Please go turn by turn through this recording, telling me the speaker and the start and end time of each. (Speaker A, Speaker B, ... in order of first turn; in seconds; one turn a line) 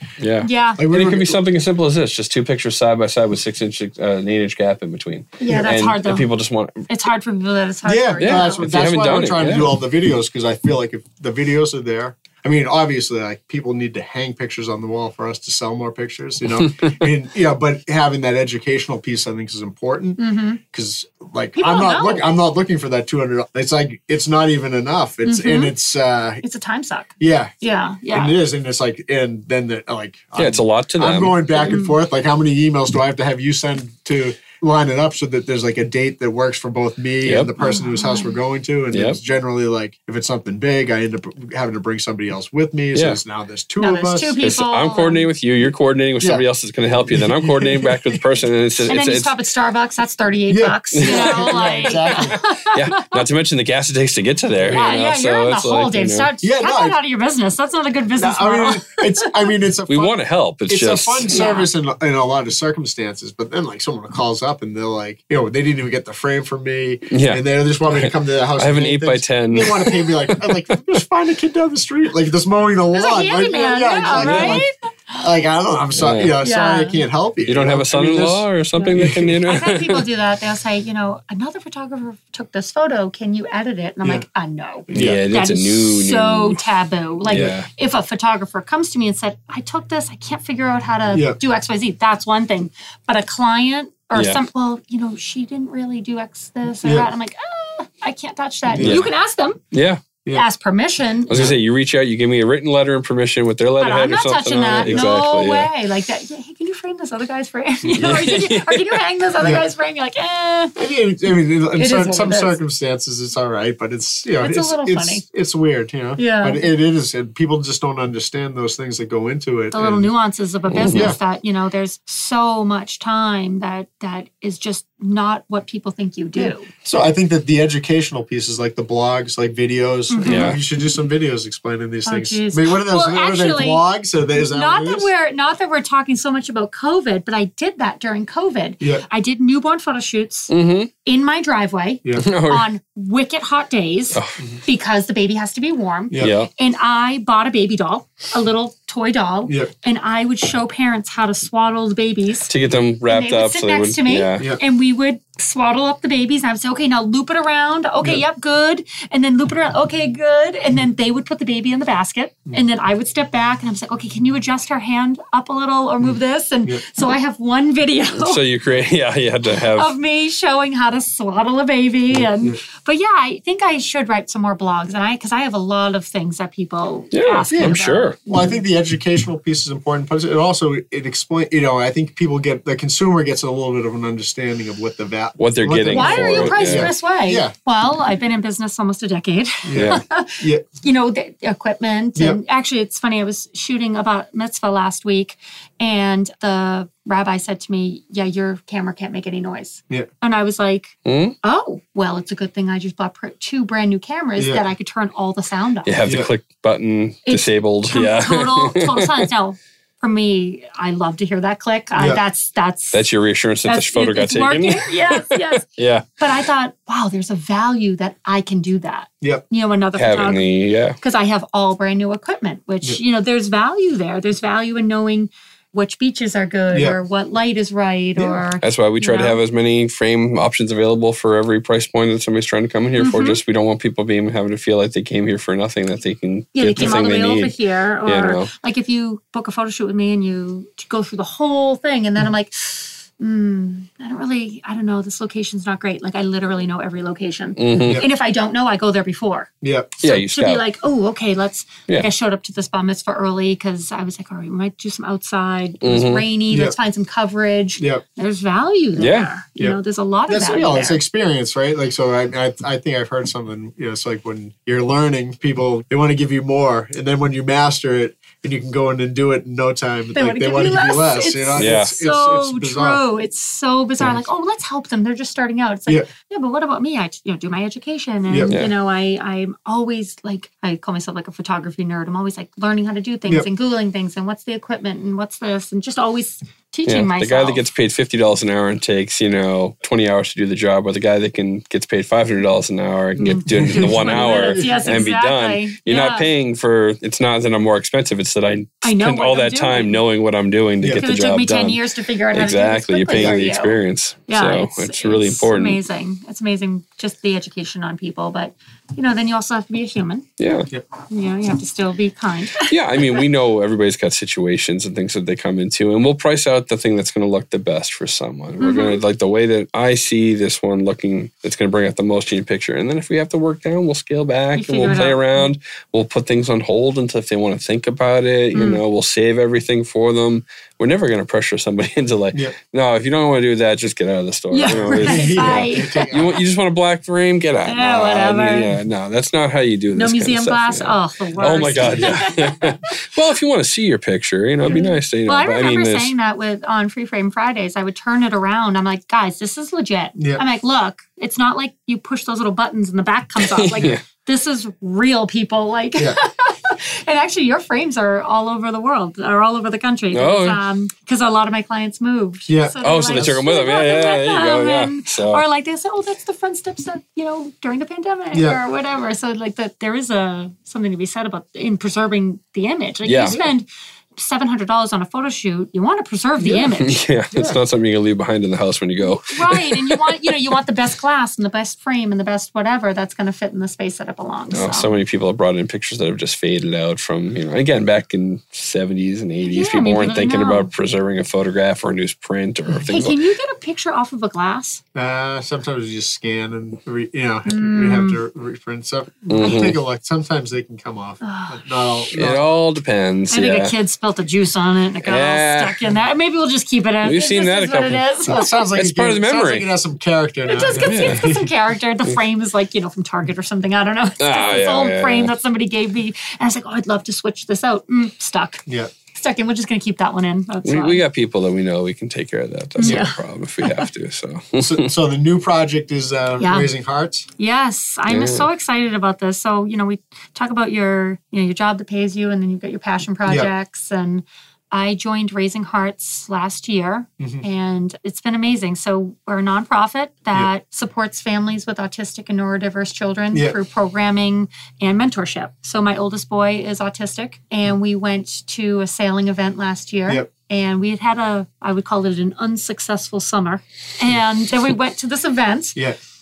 Speaker A: 0.2-6.9
Speaker B: 0.4-0.8
Speaker C: 0.8-1.4
Speaker B: 5.4-6.3
Speaker B: 6.9-8.9
Speaker C: 7.9-26.4
Speaker A: 8.2-9.8
Speaker A: 16.6-17.0
Speaker B: 20.2-20.6
Speaker B: 21.6-22.2
Speaker B: 25.2-25.7
Speaker B: 26.4-28.4
Speaker C: 27.2-27.5
Speaker C: 28.1-44.4
Speaker A: 30.4-31.8
Speaker B: 31.6-32.0
Speaker A: 37.2-37.5
Speaker B: 37.6-38.4
Speaker A: 38.9-39.2
Speaker A: 42.9-43.2
Speaker B: 43.8-45.3
Speaker A: 44.4-49.3
Speaker C: 47.1-48.2
Speaker B: 48.9-53.2
Speaker C: 50.5-52.4
Speaker A: 50.9-56.3
Speaker B: 54.7-59.3
Speaker C: 56.4-57.0
Speaker C: 58.2-60.1
Speaker A: 59.9-61.4
Speaker C: 60.7-79.4
Speaker B: 61.3-61.7
Speaker A: 67.1-70.2
Speaker B: 72.9-74.7
Speaker A: 74.1-74.6
Speaker A: 76.0-76.3
Speaker B: 76.4-77.0
Speaker A: 77.5-80.1
Speaker B: 79.4-99.6
Speaker C: 84.9-85.2
Speaker A: 84.9-86.6
Speaker A: 87.3-87.7
Speaker C: 87.3-87.5
Speaker C: 91.1-91.4
Speaker A: 94.1-94.4
Speaker C: 96.8-97.1
Speaker C: 98.7-99.0
Speaker A: 98.8-99.1
Speaker A: 99.7-100.0
Speaker B: 100.3-101.4
Speaker A: 101.3-105.7
Speaker C: 101.3-101.6
Speaker B: 103.8-110.8
Speaker C: 104.8-105.1
Speaker A: 108.0-109.0
Speaker C: 110.8-120.1
Speaker B: 111.7-112.6
Speaker B: 114.4-115.2
Speaker B: 116.2-116.7
Speaker B: 119.7-126.7
Speaker A: 120.7-121.1
Speaker C: 120.9-121.2
Speaker C: 126.4-135.1
Speaker B: 130.1-130.6
Speaker A: 130.2-130.6
Speaker B: 132.1-140.5
Speaker A: 140.5-140.9
Speaker B: 141.0-152.5
Speaker A: 142.2-142.7
Speaker A: 146.2-146.5
Speaker A: 152.5-154.5
Speaker B: 153.1-168.4
Speaker C: 166.0-166.8
Speaker A: 168.2-169.9
Speaker B: 169.5-178.6
Speaker A: 177.1-178.2
Speaker C: 177.5-187.5
Speaker A: 185.4-186.9
Speaker B: 185.9-206.1
Speaker C: 189.7-190.6
Speaker A: 189.7-190.0
Speaker A: 201.1-201.4
Speaker C: 204.4-204.6
Speaker A: 205.8-209.3
Speaker C: 206.0-206.3
Speaker B: 207.2-213.1
Speaker C: 212.0-212.2
Speaker A: 212.9-216.1
Speaker B: 213.7-215.6
Speaker B: 216.2-229.4
Speaker A: 220.0-221.0
Speaker C: 226.7-227.0
Speaker C: 228.2-228.4
Speaker A: 228.6-238.5
Speaker B: 233.0-233.4
Speaker B: 236.6-261.0
Speaker A: 247.6-248.0
Speaker C: 247.8-248.1
Speaker C: 249.6-249.9
Speaker A: 250.0-250.6
Speaker A: 255.8-256.3
Speaker C: 256.5-256.7
Speaker A: 259.0-259.3
Speaker C: 260.3-273.0
Speaker B: 270.1-287.6
Speaker A: 271.6-271.9
Speaker C: 278.3-278.5
Speaker A: 286.9-305.8
Speaker B: 293.2-296.3
Speaker C: 293.5-295.1
Speaker B: 298.8-300.0
Speaker C: 300.8-301.1
Speaker B: 301.0-310.3
Speaker C: 303.1-303.4
Speaker A: 310.4-310.7
Speaker B: 311.1-313.2
Speaker A: 312.6-346.1
Speaker B: 318.6-319.0
Speaker B: 324.6-325.5
Speaker B: 328.5-328.8
Speaker B: 334.5-336.1
Speaker C: 334.7-336.4
Speaker B: 337.7-338.7
Speaker B: 339.9-342.9
Speaker C: 341.5-342.3
Speaker B: 344.7-377.0
Speaker C: 350.2-350.4
Speaker A: 353.4-354.0
Speaker A: 360.1-360.6
Speaker C: 362.5-363.4
Speaker A: 362.8-365.4
Speaker C: 368.3-368.6
Speaker A: 373.1-373.4
Speaker C: 376.4-376.7
Speaker A: 376.8-380.3
Speaker C: 377.3-377.6
Speaker B: 379.0-384.9
Speaker A: 384.5-393.2
Speaker B: 389.4-390.7
Speaker B: 392.8-394.8
Speaker C: 394.9-402.4
Speaker B: 397.4-398.2
Speaker A: 399.3-399.8
Speaker B: 401.2-401.6
Speaker A: 402.1-403.7
Speaker B: 403.3-408.7
Speaker A: 405.0-405.9
Speaker A: 407.0-408.1
Speaker C: 408.3-411.4
Speaker A: 408.7-409.7
Speaker B: 410.5-421.0
Speaker A: 410.7-411.4
Speaker A: 414.2-415.3
Speaker A: 420.6-424.9
Speaker B: 422.8-423.9
Speaker C: 422.8-423.1
Speaker C: 424.6-427.3
Speaker B: 426.4-426.7
Speaker B: 427.4-455.8
Speaker A: 428.1-428.4